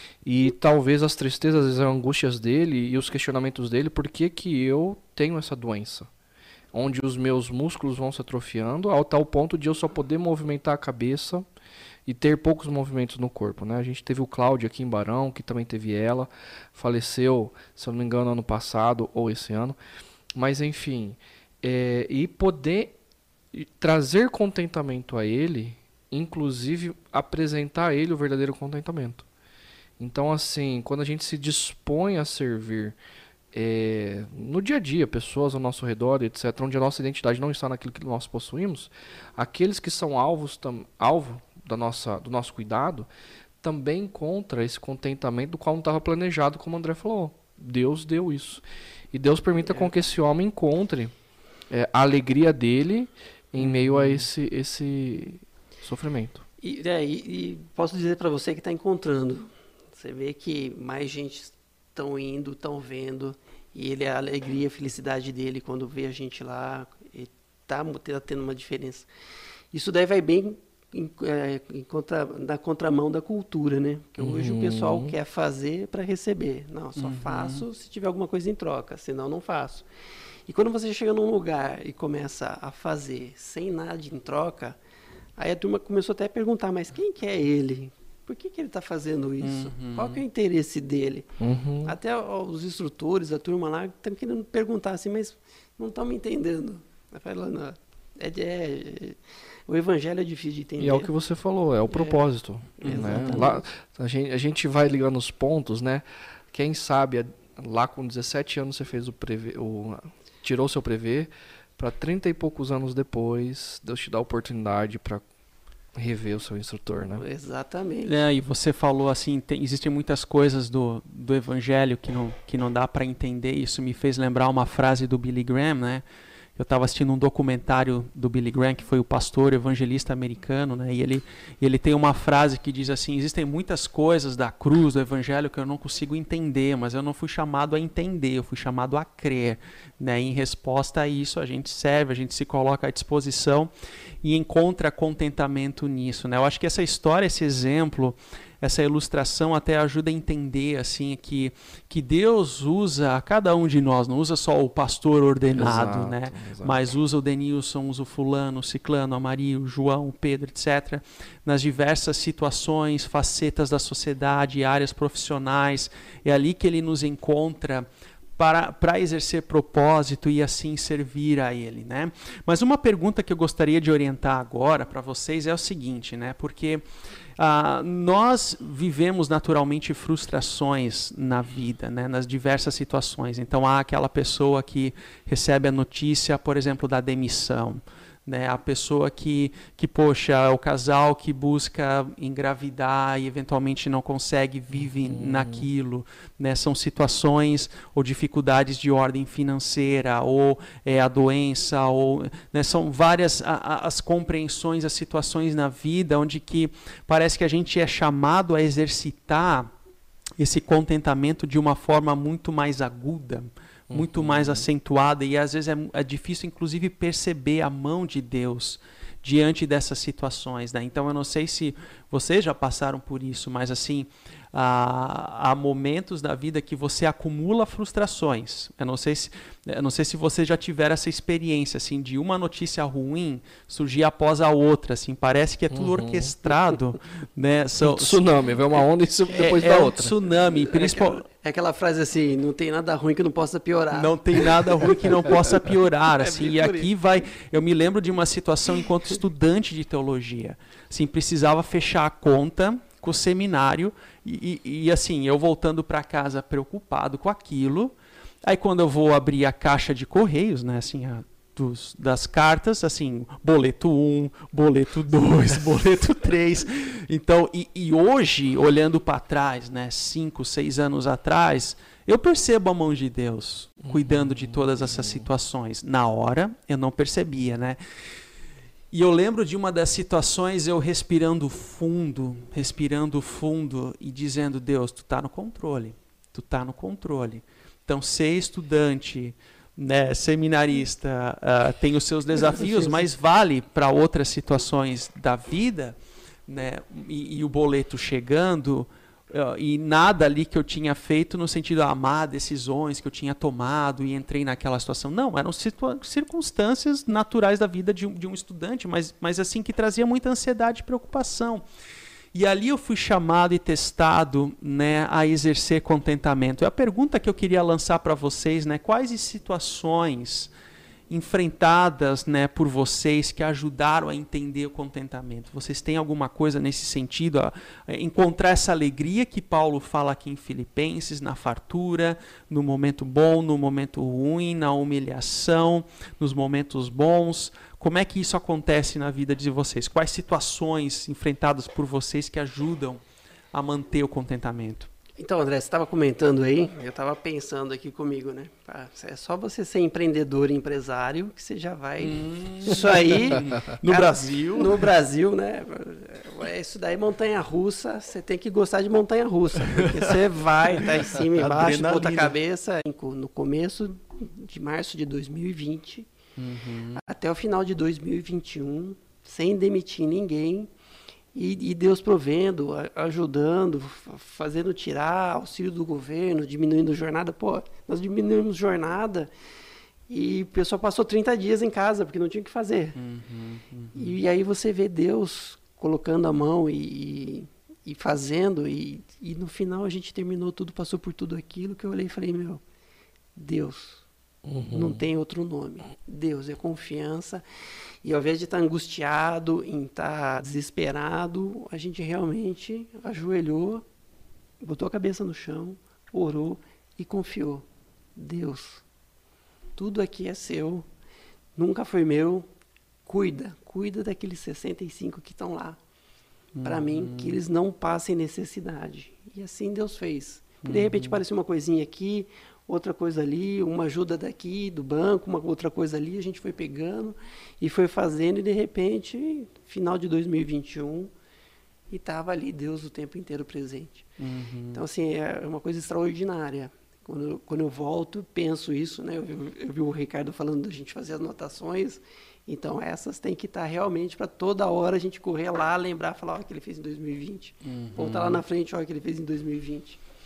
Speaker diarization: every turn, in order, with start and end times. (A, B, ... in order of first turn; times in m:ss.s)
0:00.2-0:06.1 A
0:06.7-0:11.4 A
0:12.0-0:19.8 A
0:20.4-0:23.0 A
0:23.5-0:29.2 A
0:30.0-0:33.0 A
0:33.5-0:43.1 A
0:43.6-0:51.1 A
0:51.7-0:56.4 A
0:53.6-0:54.2 B
0:56.6-1:09.1 C
1:09.7-1:19.9 C
1:14.2-1:15.1 A
1:17.0-1:17.6 B
1:20.5-1:24.8 C
1:25.4-1:31.3 C
1:29.4-1:30.2 B
1:31.4-1:32.0 A
1:31.8-1:41.1 C
1:40.8-1:55.2 A
1:41.9-1:42.2 C
1:42.8-1:43.6 C
1:42.8-1:43.5 B
1:56.0-1:57.2 A
1:57.2-1:58.1 C
1:58.0-2:06.0 B
2:06.6-2:23.7 B
2:24.2-2:56.8 B
2:35.5-2:36.8 A
2:57.4-3:29.7 B
3:15.0-3:15.7 A
3:30.4-4:01.2 B
3:33.9-3:34.7 A
3:55.7-3:56.3 A
3:57.8-4:00.1 A
4:00.6-4:05.4 C
4:03.9-4:37.8 B
4:06.2-4:06.9 C
4:33.8-4:35.3 A
4:38.9-5:11.6 B
4:52.4-4:53.1 C
5:12.3-5:20.5 B
5:21.1-5:43.0 B
5:43.5-5:44.9 B
5:45.2-6:06.1 C
5:52.0-5:54.8 B
5:59.6-6:00.1 B
6:00.7-6:02.3 B
6:06.4-6:07.0 B
6:07.0-6:10.7 C
6:11.3-6:19.3 C
6:20.1-6:23.0 C
6:23.0-6:24.1 B
6:23.9-6:32.6 C
6:33.4-6:34.0 C
6:34.4-6:35.0 A
6:34.7-6:37.4 C
6:38.0-6:43.8 C
6:44.6-6:47.6 C
6:48.2-6:48.8 C
6:49.8-6:50.8 C
6:51.6-6:52.4 C
6:53.0-6:55.8 C
6:56.5-6:57.4 B
6:56.6-7:11.1 C
7:00.6-7:01.2 B
7:11.9-7:14.0 C
7:14.2-7:14.8 B
7:14.7-7:30.0 C
7:27.6-7:28.4 B